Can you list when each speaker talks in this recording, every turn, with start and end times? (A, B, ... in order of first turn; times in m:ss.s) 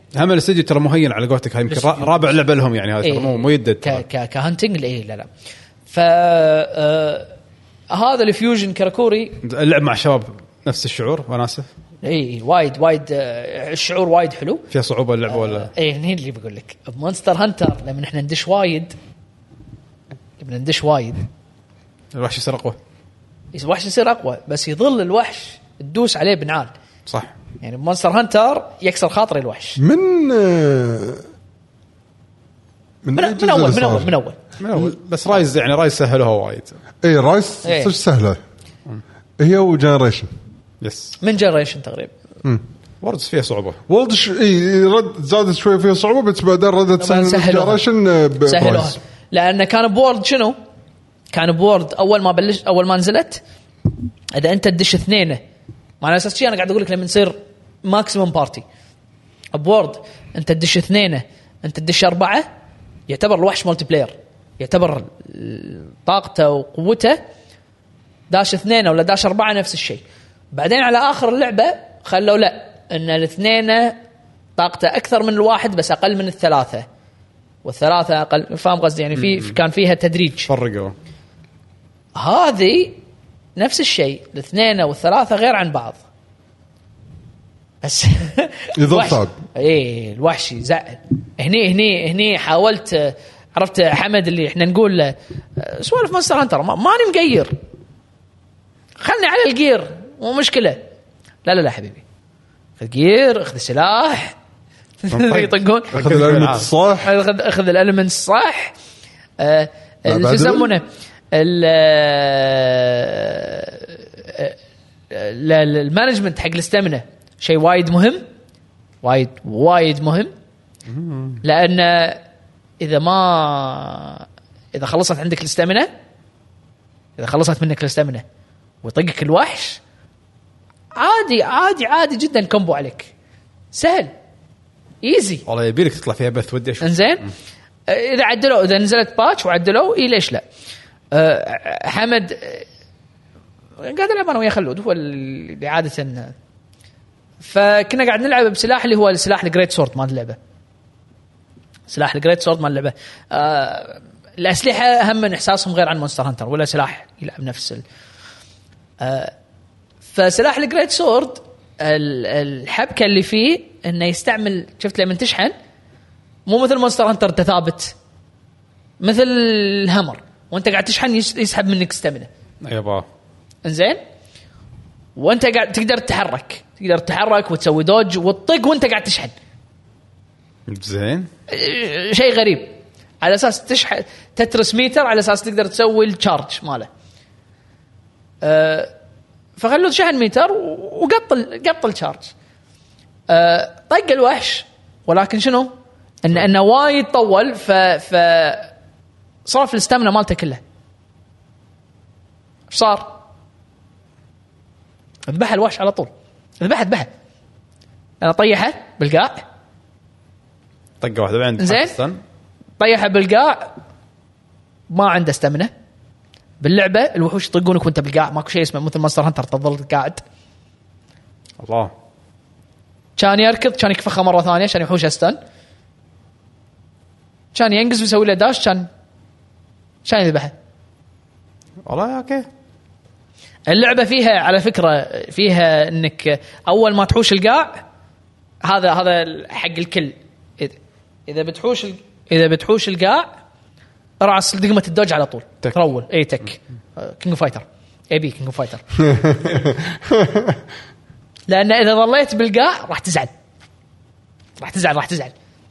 0:00.1-0:04.0 A
0:01.7-0:02.3 B
0:03.0-0:05.3 B
0:05.9-0:07.3 B
0:07.9-0:09.4 B
0:09.4-0:11.7 A
0:12.0-0:14.7 B
0:14.7-0:15.7 A
0:15.3-0:18.9 B
0:20.4-0:21.2 B
0:22.1-0:22.8 A
0:23.5-0:26.7 B
0:27.0-0:27.3 A
0:27.6-0:29.8 B
0:29.8-0:31.2 C
0:33.0-0:34.1 C
0:33.1-0:34.4 B
0:34.6-0:36.8 A
0:37.0-0:38.4 C
0:37.6-0:37.9 B
0:39.4-0:40.3 C
0:40.8-0:41.2 A
0:41.2-0:42.1 B
0:43.0-0:43.8 A
0:43.9-0:49.0 C
0:47.0-0:47.8 B
0:48.4-0:50.6 B
0:51.3-0:53.4 B
0:54.3-0:55.4 B
0:56.0-0:58.6 B
0:59.5-1:02.5 B
1:03.1-1:07.2 B
1:08.3-1:14.0 B
1:14.6-1:16.8 B
1:17.6-1:20.5 B
1:19.1-1:19.6 A
1:20.5-1:20.9 A
1:22.2-1:23.0 B
1:23.6-1:26.0 B
1:27.8-1:37.6 B
1:28.8-1:29.4 C
1:39.0-1:40.8 B
1:41.4-1:42.0 B
1:42.8-1:44.3 B
1:45.0-1:46.0 B
1:45.1-1:46.7 A
1:45.9-1:47.1 C
1:47.0-1:48.7 B
1:49.4-1:54.6 B
1:50.0-1:50.7 C
1:55.1-1:58.2 B
1:59.0-2:00.3 B
2:00.9-2:01.4 A
2:01.4-2:02.2 B
2:02.8-2:05.9 B
2:07.2-2:08.2 B
2:08.8-2:09.8 B
2:10.9-2:13.1 B
2:13.7-2:14.1 B
2:15.0-2:15.4 B
2:15.4-2:17.3 A
2:16.8-2:17.3 B
2:17.9-2:20.4 B
2:21.1-2:22.6 B
2:23.8-2:26.3 B
2:27.4-2:30.4 B
2:31.9-2:37.8 B
2:39.0-2:39.3 B
2:40.1-2:45.5 B
2:46.4-2:47.9 B
2:49.0-2:52.3 B
2:52.6-2:53.1 A
2:53.6-2:54.0 B
2:55.2-2:59.3 B
3:00.7-3:01.3 A
3:01.5-3:06.9 B
3:08.4-3:08.9 B
3:09.6-3:12.3 B
3:13.3-3:18.7 B
3:19.4-3:20.6 B
3:22.7-3:23.2 B
3:25.3-3:26.1 B
3:26.6-3:27.1 B
3:28.2-3:29.4 B
3:31.0-3:32.2 A
3:31.6-3:31.9 B
3:32.8-3:33.8 B
3:34.9-3:35.7 B
3:36.6-3:40.2 B
3:41.6-3:41.9 A
3:43.2-3:45.4 B
3:47.5-3:48.9 B
3:50.0-3:50.5 B
3:51.8-3:52.5 A
3:53.7-3:57.8 B
3:58.6-4:00.8 B
4:01.3-4:03.3 B
4:04.2-4:08.8 B
4:09.0-4:10.6 C
4:11.5-4:13.3 B
4:14.6-4:15.3 B